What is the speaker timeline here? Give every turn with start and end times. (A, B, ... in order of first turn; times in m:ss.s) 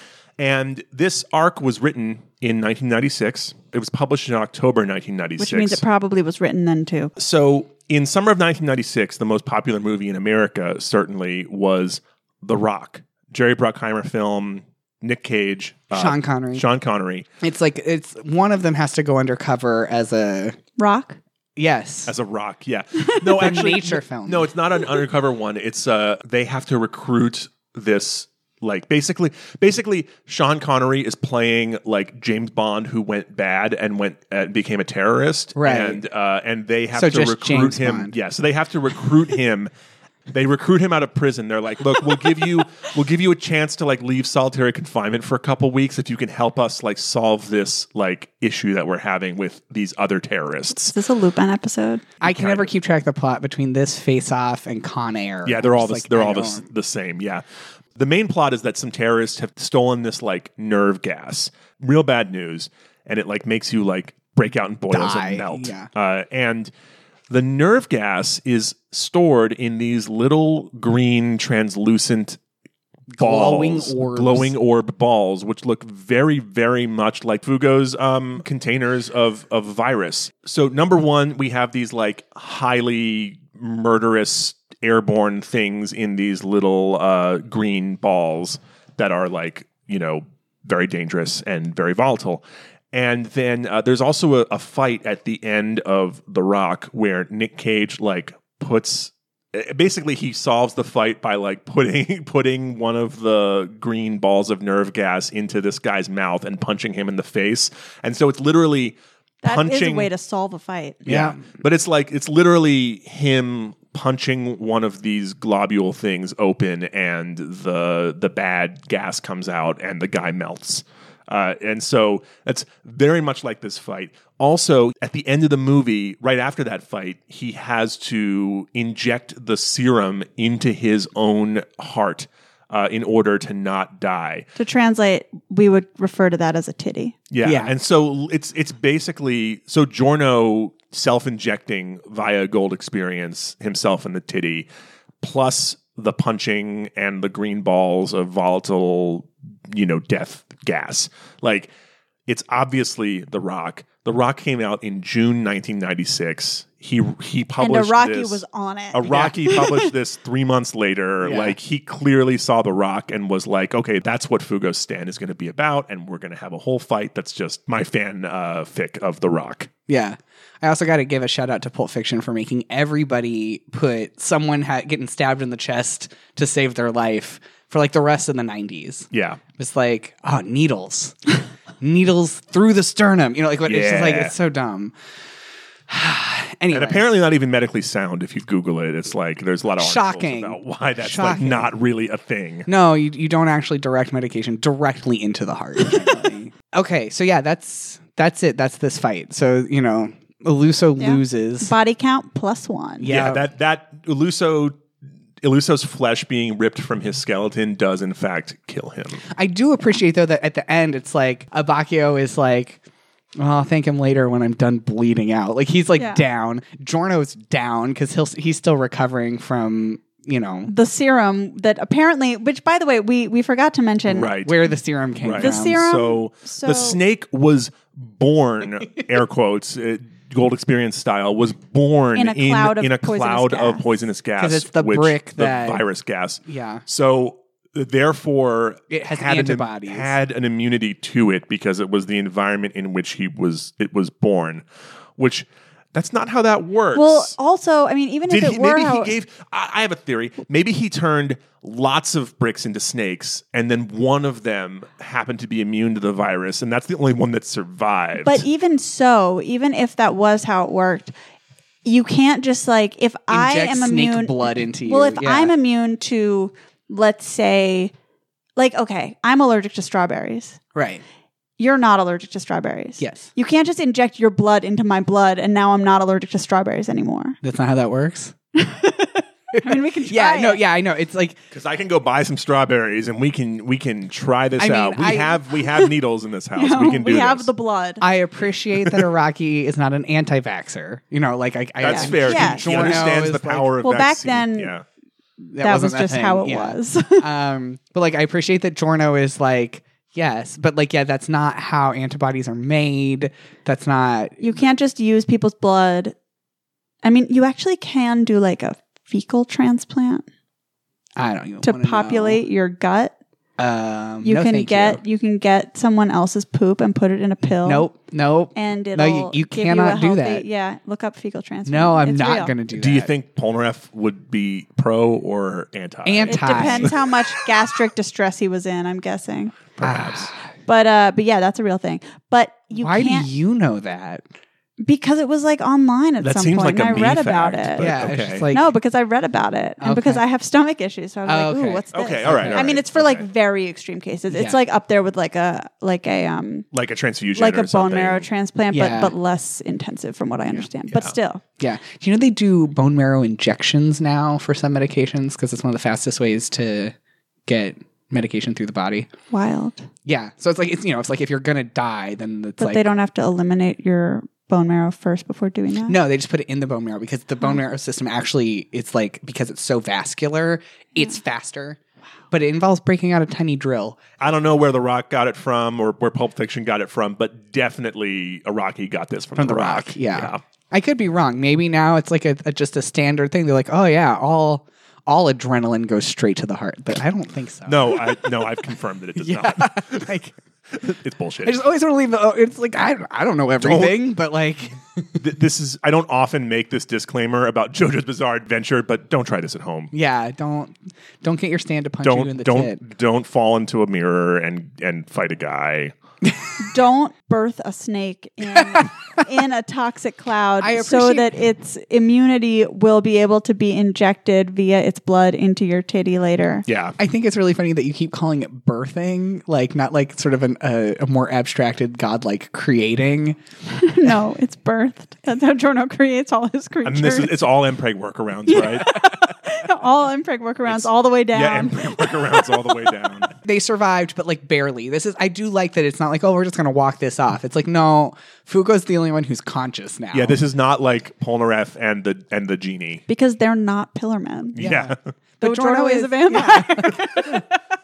0:00.4-0:05.8 A
0:05.4-0:07.1 B
0:07.2-0:17.3 A
0:15.9-0:16.6 C
0:17.4-0:20.6 C
0:20.8-0:21.2 B
0:21.6-0:22.1 C
0:22.1-0:39.7 A
0:23.3-0:24.5 C
0:35.6-0:36.0 C
0:36.9-0:38.1 C
0:40.3-0:51.0 A
0:50.8-0:52.0 B
0:52.2-0:56.6 C
0:52.2-0:52.7 A
0:55.4-0:57.4 A
0:57.9-1:06.7 A
1:04.9-1:05.9 C
1:07.3-1:12.4 A
1:13.1-1:14.5 C
1:13.2-1:50.1 A
1:49.4-1:51.0 B
1:51.0-1:51.4 C
1:51.0-2:14.5 A
2:14.6-2:17.2 B
2:17.3-2:24.7 A
2:17.4-2:17.7 C
2:25.2-2:31.7 A
2:32.3-2:38.4 A
2:37.6-2:39.9 B
2:38.9-2:49.7 A
2:41.2-2:41.6 C
2:49.9-3:04.9 C
2:59.1-2:59.4 A
3:03.6-3:04.3 A
3:05.9-3:07.0 C
3:06.7-3:12.7 A
3:09.8-3:11.7 C
3:12.6-3:21.7 C
3:21.0-3:23.1 B
3:23.0-3:23.4 C
3:23.0-3:24.8 A
3:25.4-3:29.2 A
3:29.3-3:32.8 C
3:33.4-3:40.7 C
3:40.7-3:44.3 B
3:44.1-3:44.7 A
3:44.4-3:45.8 C
3:45.2-4:04.6 A
3:45.4-3:47.0 B
3:52.2-3:53.9 B
3:54.4-3:55.8 C
3:56.4-3:56.8 C
3:58.9-4:00.1 C
4:05.2-4:07.3 A
4:06.9-4:09.1 B
4:08.3-4:18.4 A
4:18.2-4:21.1 B
4:21.8-4:27.9 B
4:23.3-4:25.5 C
4:28.6-4:30.6 B
4:30.7-4:31.0 C
4:31.6-4:37.4 B
4:33.0-4:33.3 C
4:37.4-4:38.3 C
4:38.6-4:40.6 B
4:39.5-4:41.4 C
4:41.5-4:47.5 A
4:44.6-4:45.4 C
4:46.6-4:48.0 B
4:48.0-4:53.7 C
4:48.8-4:49.0 A
4:51.8-4:54.8 A
4:51.9-4:53.1 B
4:53.8-4:54.7 B
4:55.5-5:04.6 C
4:55.6-4:57.2 B
5:04.4-5:06.1 B
5:07.0-5:10.2 B
5:11.2-5:12.4 C
5:11.6-5:13.1 B
5:13.6-5:15.0 C
5:14.2-5:17.9 B
5:17.6-5:20.4 C
5:18.5-5:22.5 B
5:21.6-5:23.1 C
5:22.7-5:27.2 A
5:26.0-5:27.0 C
5:26.3-5:29.6 B
5:29.7-5:30.3 A
5:29.8-5:30.3 C
5:30.7-5:33.3 B
5:32.8-5:34.2 C
5:34.8-5:46.7 B
5:36.2-5:38.5 A
5:37.8-5:38.7 C
5:39.8-5:40.2 C
5:41.2-5:42.6 C
5:41.9-5:43.2 A
5:44.3-5:44.6 C
5:46.7-5:48.3 A
5:47.4-5:51.4 B
5:48.7-5:49.1 C
5:50.9-5:51.1 A
5:51.6-5:56.9 C
5:57.5-5:59.1 C
5:59.3-5:59.8 B
6:00.0-6:02.8 C
6:02.6-6:06.0 B
6:05.9-6:11.8 C
6:12.3-6:14.0 C
6:14.2-6:20.4 A
6:19.4-6:28.4 C
6:27.6-6:30.1 A
6:29.2-6:30.3 C
6:30.7-6:31.6 A
6:31.4-6:35.2 C
6:33.6-6:34.0 A
6:35.2-6:39.9 A
6:39.9-6:42.8 C
6:42.0-6:45.9 A
6:46.6-6:56.6 B
6:50.6-6:51.4 C
6:56.6-6:57.0 A
6:57.0-7:03.4 C
7:03.7-7:07.4 B
7:06.8-7:09.1 A
7:08.5-7:12.6 B
7:10.6-7:13.4 A
7:13.4-7:20.4 C
7:20.1-7:23.0 A
7:23.1-7:24.7 B
7:24.6-7:25.0 A
7:24.6-7:27.4 C
7:25.4-7:27.4 B
7:26.8-7:27.2 A